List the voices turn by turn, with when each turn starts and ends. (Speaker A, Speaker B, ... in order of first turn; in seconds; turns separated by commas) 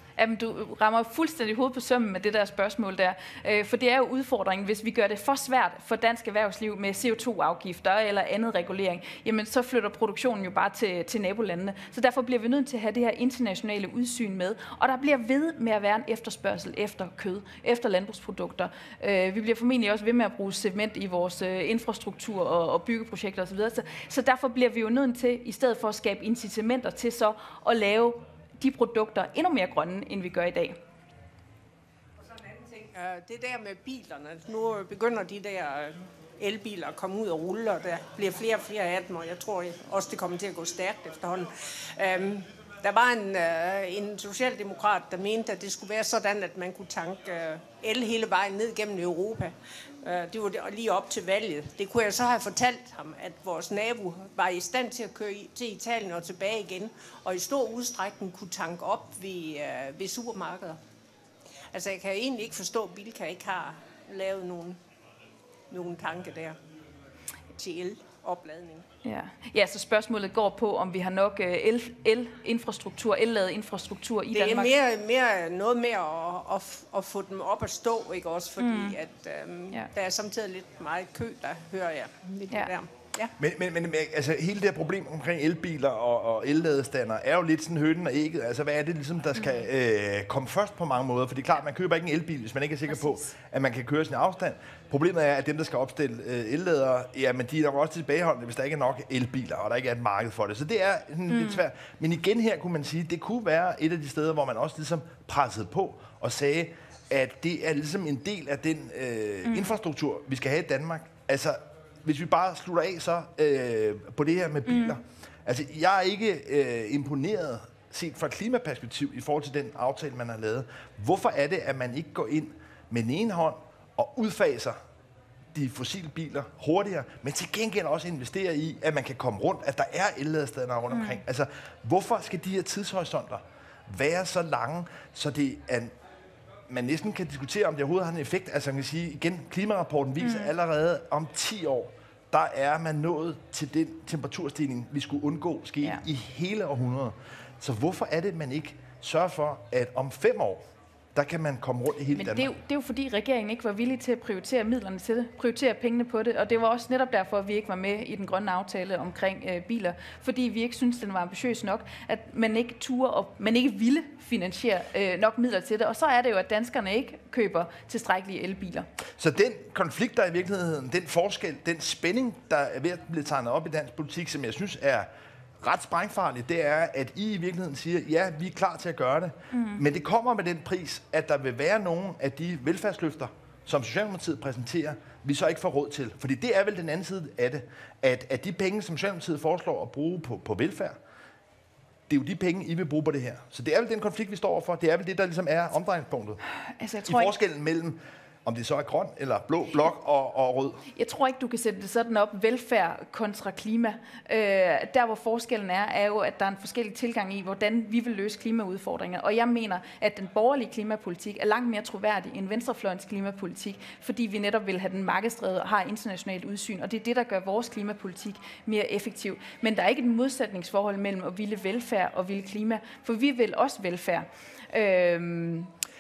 Speaker A: 0.2-30.8, Speaker B: 32.2-60.8, Speaker B: 61.7-64.8, Speaker B: 65.7-66.6, Speaker B: 67.5-68.9, Speaker A: 69.0-74.7, Speaker B: 74.3-83.3, Speaker A: 78.6-79.0, Speaker C: 83.4-124.8, Speaker A: 101.3-101.6, Speaker A: 109.5-109.7, Speaker A: 114.7-115.0, Speaker C: 125.5-135.9, Speaker A: 130.9-131.2, Speaker C: 136.7-150.6, Speaker A: 140.2-140.5, Speaker C: 151.2-152.5, Speaker A: 152.1-168.9, Speaker C: 169.2-175.1, Speaker C: 175.6-191.0, Speaker A: 179.5-179.8, Speaker C: 192.1-196.4, Speaker A: 196.7-197.3, Speaker C: 197.1-200.9, Speaker A: 200.9-225.7